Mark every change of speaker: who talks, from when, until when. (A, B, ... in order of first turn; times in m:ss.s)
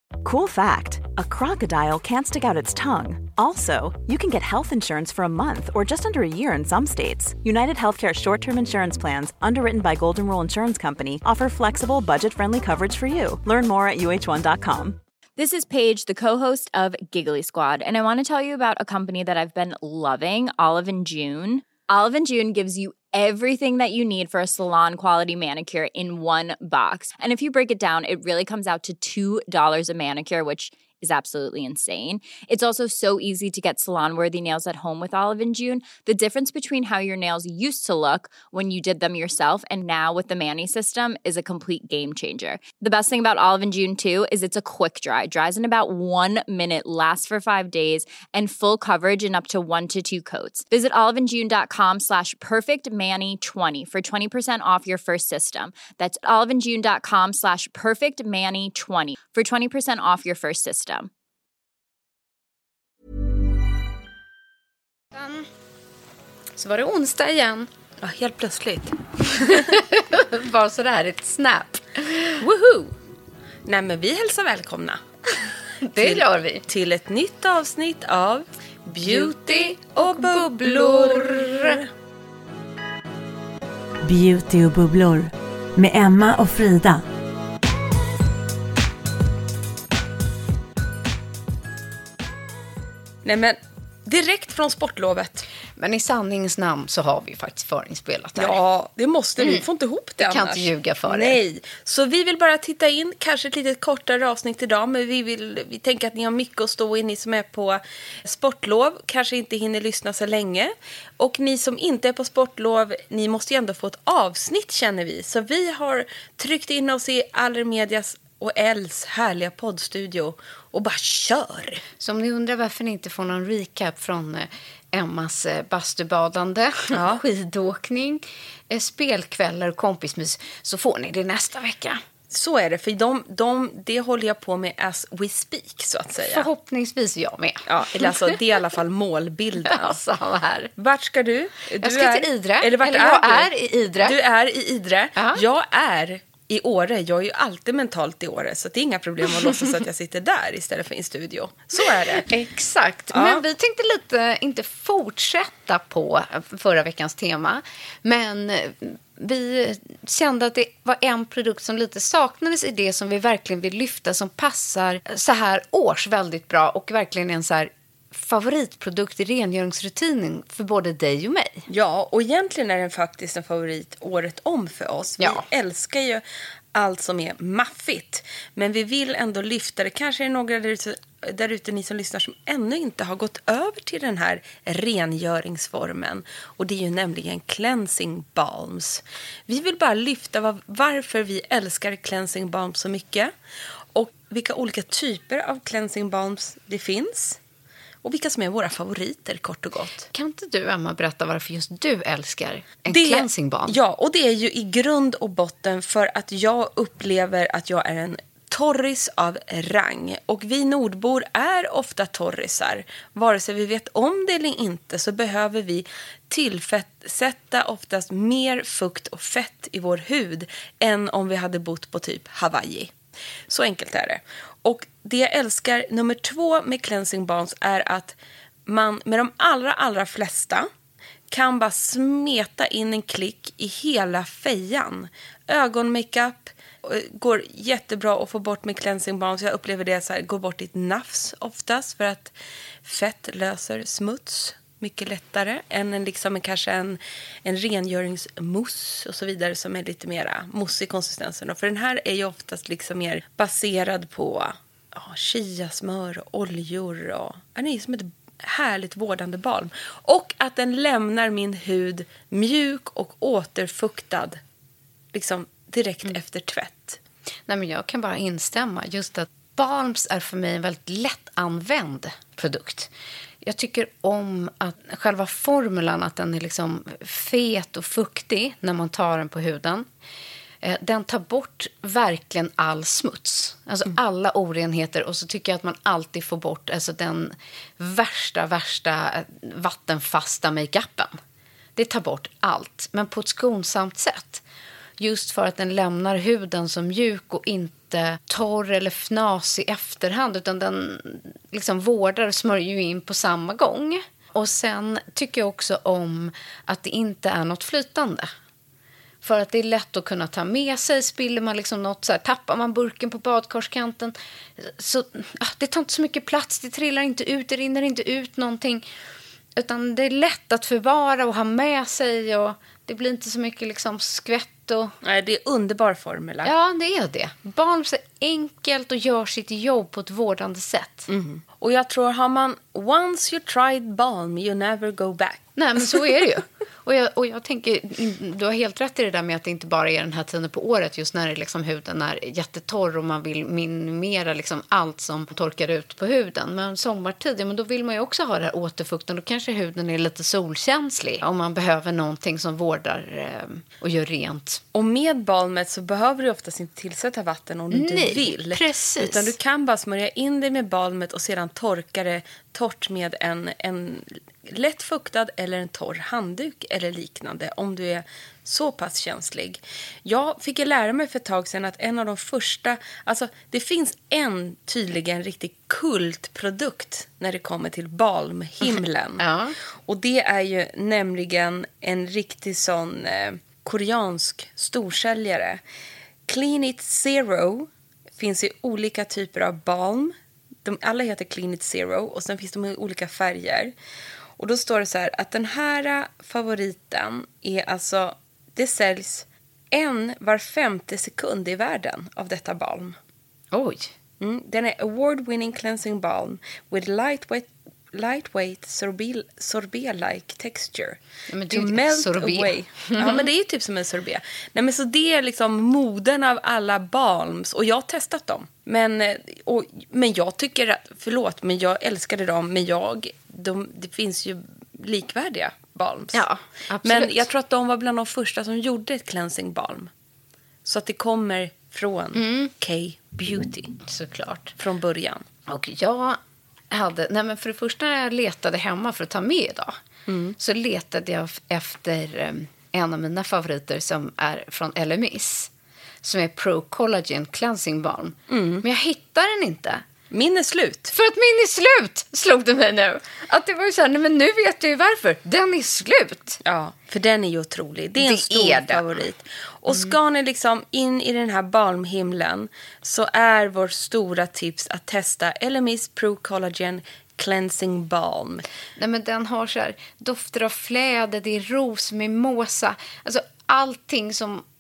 0:00.2-0:15.0 A
0:15.4-1:01.1 B
1:05.1-1:05.5 C
1:06.6-1:07.7 C
1:08.0-1:09.6 D
1:09.3-1:12.4 C
1:12.4-1:12.9 D
1:13.7-1:15.0 D
1:15.8-1:16.7 C
1:16.0-1:21.9 D
1:19.0-1:21.8 C
1:24.0-1:27.0 E
1:33.2-1:35.5 D
1:35.8-1:38.6 C
1:38.4-2:01.8 D
1:39.4-1:39.7 C
1:40.2-1:41.4 C
2:02.0-2:12.0 C
2:06.9-2:07.2 D
2:12.3-2:16.5 D
2:16.2-2:18.4 C
2:17.7-2:20.0 D
2:19.6-2:20.7 C
2:20.8-2:23.5 D
2:21.8-2:24.2 C
2:24.0-2:32.3 D
2:25.2-2:25.4 C
2:32.0-2:51.7 C
2:33.1-2:33.4 D
2:51.7-2:56.2 D
2:55.2-2:55.4 C
2:56.7-3:13.3 D
3:13.9-3:17.4 D
3:18.0-3:20.1 D
3:20.1-3:23.8 C
3:22.9-3:42.9 D
3:43.5-3:50.7 D
3:51.3-4:02.3 D
4:02.8-4:24.4 D
4:25.1-4:27.0 D
4:27.5-4:32.9 C
4:33.4-4:39.9 C
4:40.6-4:51.2 C
4:51.8-4:54.4 C
4:55.0-5:08.3 C
5:09.2-5:18.8 C
5:19.6-5:24.9 C
5:25.0-5:26.5 D
5:26.4-5:31.1 C
5:31.1-5:36.0 D
5:35.6-5:54.6 C
5:54.7-6:19.2 D
5:57.7-5:59.4 C
6:18.6-6:19.6 C
6:19.9-6:25.6 D
6:26.3-6:33.7 D
6:34.4-6:43.0 D
6:43.5-6:43.9 C
6:44.2-6:51.0 D
6:51.3-6:53.3 C
6:51.5-7:06.2 D
7:06.1-7:07.3 C
7:06.8-7:09.9 D
7:10.6-7:13.7 D
7:12.2-7:12.5 C
7:13.9-7:14.6 C
7:14.6-7:15.2 D
7:15.5-7:16.2 C
7:16.7-7:19.8 C
7:20.1-7:20.4 D
7:20.4-7:25.5 C
7:26.0-7:29.8 C
7:28.3-7:28.6 D
7:30.1-7:30.9 D
7:30.9-7:36.4 C
7:36.4-7:48.5 D
7:38.0-7:39.0 C
7:39.7-7:40.0 C
7:48.8-7:54.4 C